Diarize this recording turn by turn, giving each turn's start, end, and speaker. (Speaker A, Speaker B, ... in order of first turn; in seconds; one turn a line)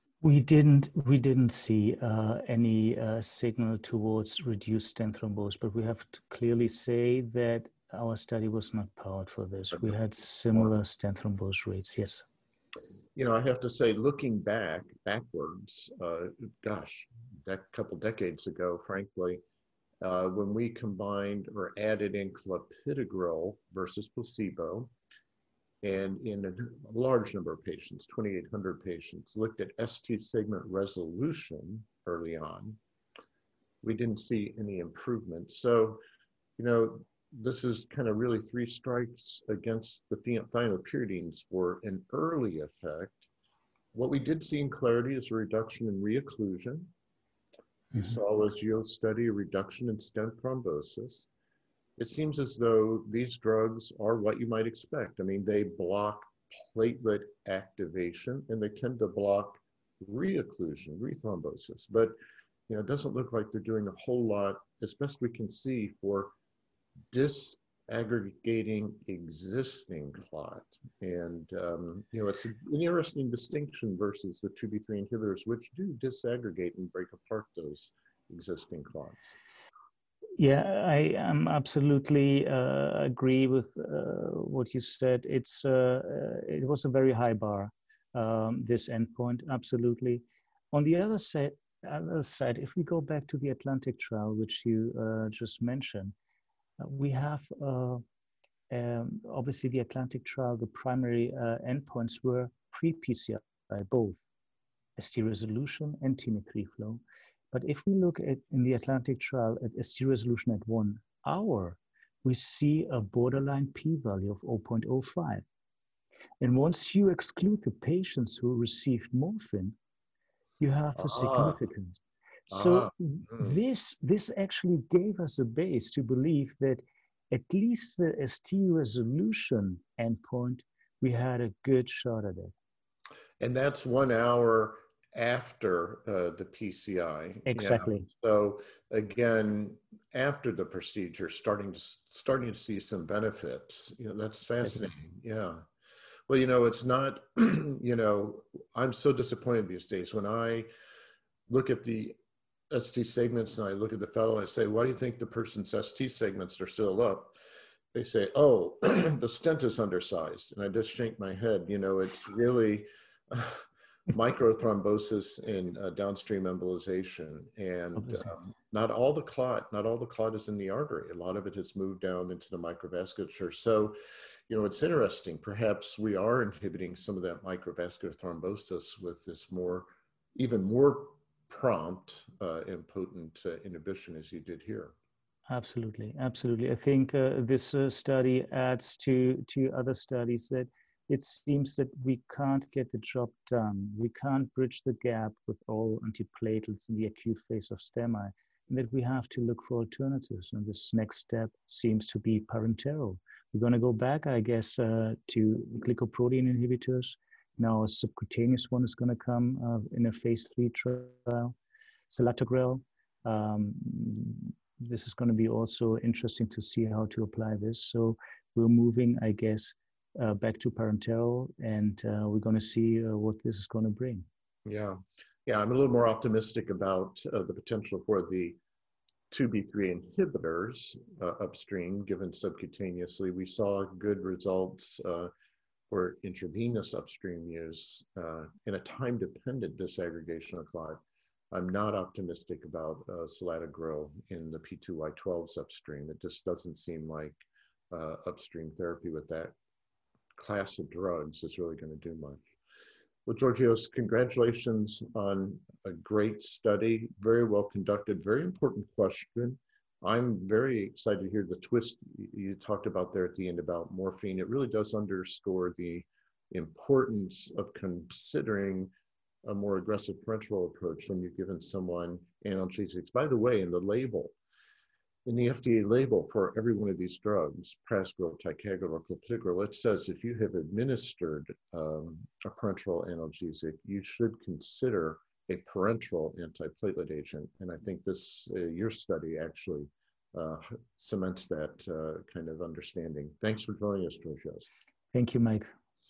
Speaker A: 0.2-12.2
Speaker B: 13.2-19.4
Speaker B: 20.0-24.9
Speaker B: 25.8-32.8
Speaker B: 33.8-36.0
Speaker B: 36.6-43.3
Speaker B: 43.9-46.9
Speaker B: 48.0-51.3
Speaker B: 52.0-62.1
Speaker B: 62.7-66.3
Speaker B: 67.1-79.4
Speaker A: 80.4-96.2
Speaker A: 96.8-98.0
Speaker A: 98.7-104.2
Speaker A: 105.0-115.5
Speaker A: 116.4-119.8
Speaker A: 120.6-132.5
Speaker B: 121.0-121.6
Speaker B: 122.5-123.6
Speaker B: 133.4-145.6
Speaker A: 137.5-138.1
Speaker B: 146.3-150.7
Speaker B: 151.5-152.2
Speaker B: 152.7-157.3
Speaker B: 157.9-174.0
Speaker A: 168.0-168.3
Speaker B: 174.5-184.9
Speaker A: 185.5-211.6
Speaker A: 212.1-224.3
Speaker B: 224.7-228.6
Speaker B: 229.3-235.3
Speaker B: 235.9-241.0
Speaker B: 241.5-247.4
Speaker B: 247.9-249.5
Speaker B: 250.4-252.5
Speaker B: 253.3-268.9
Speaker B: 269.4-274.4
Speaker B: 275.3-294.7
Speaker A: 295.1-295.7